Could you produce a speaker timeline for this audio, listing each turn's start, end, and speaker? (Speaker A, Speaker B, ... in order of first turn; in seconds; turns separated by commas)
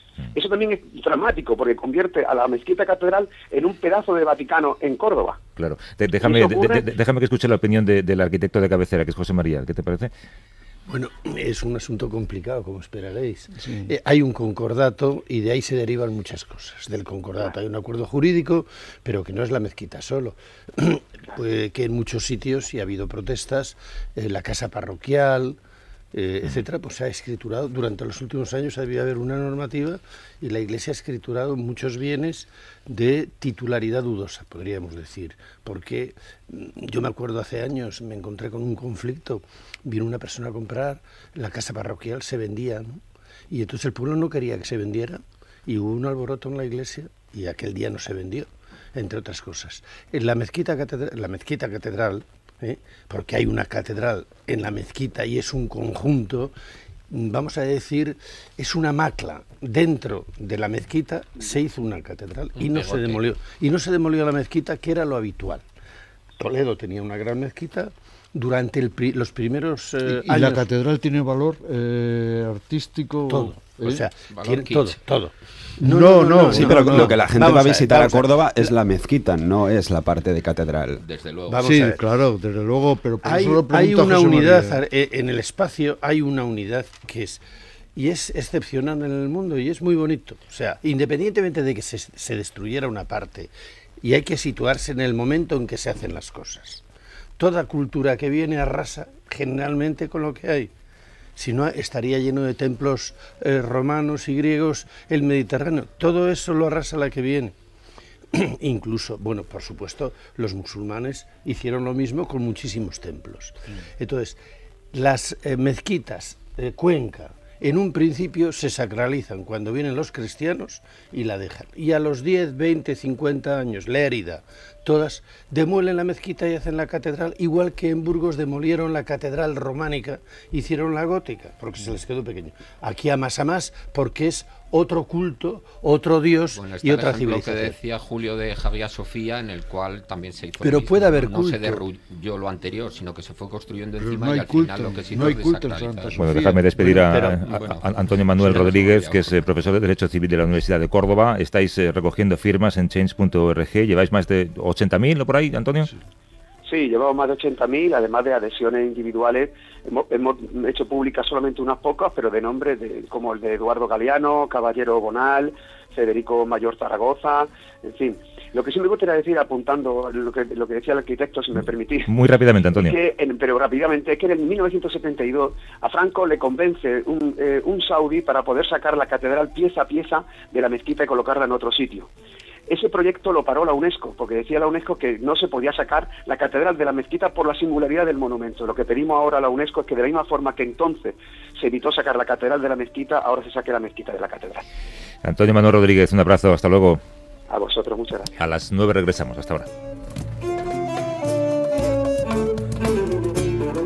Speaker A: 0.3-5.4, Speaker B: 5.6-10.1, Speaker A: 6.2-6.8, Speaker C: 10.9-25.6, Speaker D: 13.6-13.9, Speaker C: 26.1-43.0, Speaker C: 43.5-56.5, Speaker C: 57.1-65.6, Speaker E: 62.6-63.2, Speaker C: 66.4-70.7, Speaker D: 70.1-74.0, Speaker C: 73.3-78.7, Speaker E: 74.3-75.0, Speaker D: 75.8-77.2, Speaker F: 76.5-81.0, Speaker E: 81.0-81.8, Speaker C: 81.5-82.0, Speaker D: 81.6-84.8, Speaker C: 83.2-87.4, Speaker C: 88.0-96.8, Speaker C: 97.4-100.7, Speaker C: 101.3-107.5, Speaker C: 108.3-114.4, Speaker C: 114.9-137.8, Speaker E: 136.5-146.4, Speaker C: 140.6-141.8, Speaker D: 144.0-147.0, Speaker B: 146.2-155.9, Speaker C: 147.0-147.3, Speaker E: 147.4-149.4, Speaker A: 156.7-172.1, Speaker B: 172.1-172.9, Speaker A: 172.8-182.1, Speaker A: 182.7-194.6, Speaker B: 195.2-197.0, Speaker A: 197.5-198.3, Speaker B: 198.4-199.7